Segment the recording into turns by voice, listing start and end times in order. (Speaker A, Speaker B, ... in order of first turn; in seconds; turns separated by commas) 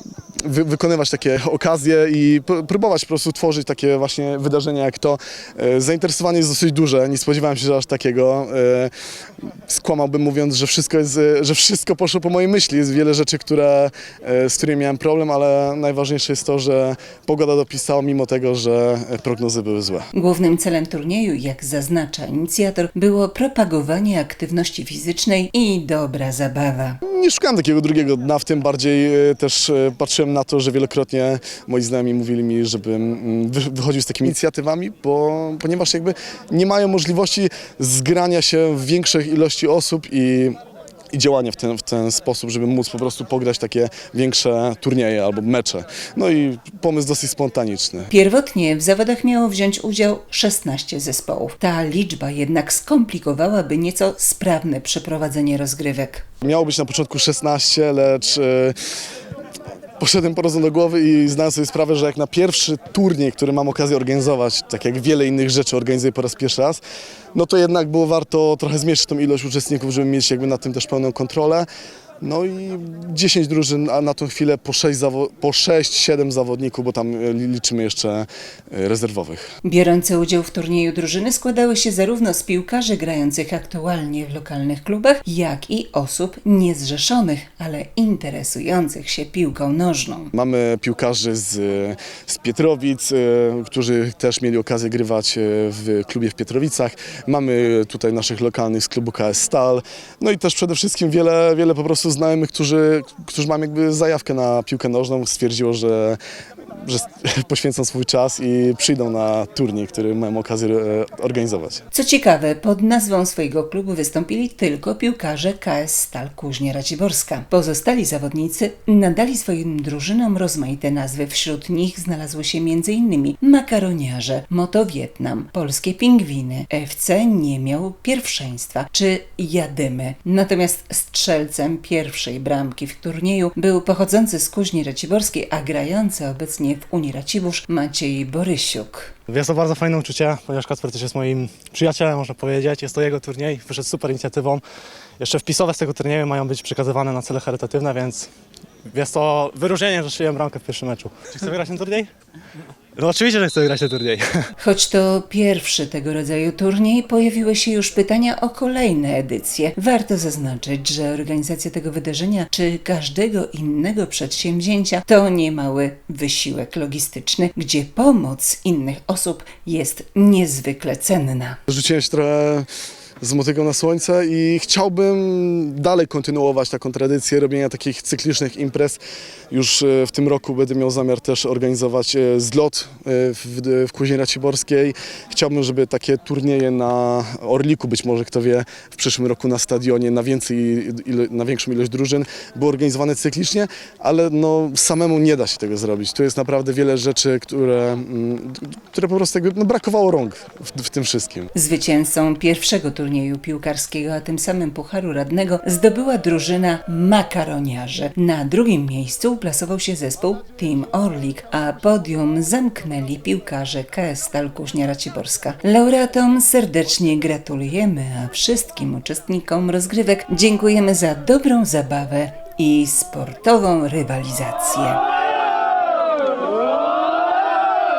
Speaker A: 0.4-8.9, Speaker A: 9.7-20.1, Speaker B: 20.1-27.0, Speaker A: 27.1-40.6, Speaker A: 41.1-48.1, Speaker B: 48.1-56.3, Speaker A: 56.4-58.8, Speaker A: 60.0-66.8, Speaker A: 67.3-71.7, Speaker A: 72.2-79.5, Speaker B: 79.6-90.3, Speaker A: 90.3-106.2, Speaker A: 106.8-111.8, Speaker B: 111.9-139.2, Speaker C: 139.3-144.6, Speaker C: 145.2-148.3, Speaker C: 148.8-152.1, Speaker C: 152.9-154.5, Speaker B: 154.6-171.6, Speaker A: 171.7-172.7, Speaker A: 173.2-201.5, Speaker B: 201.5-225.0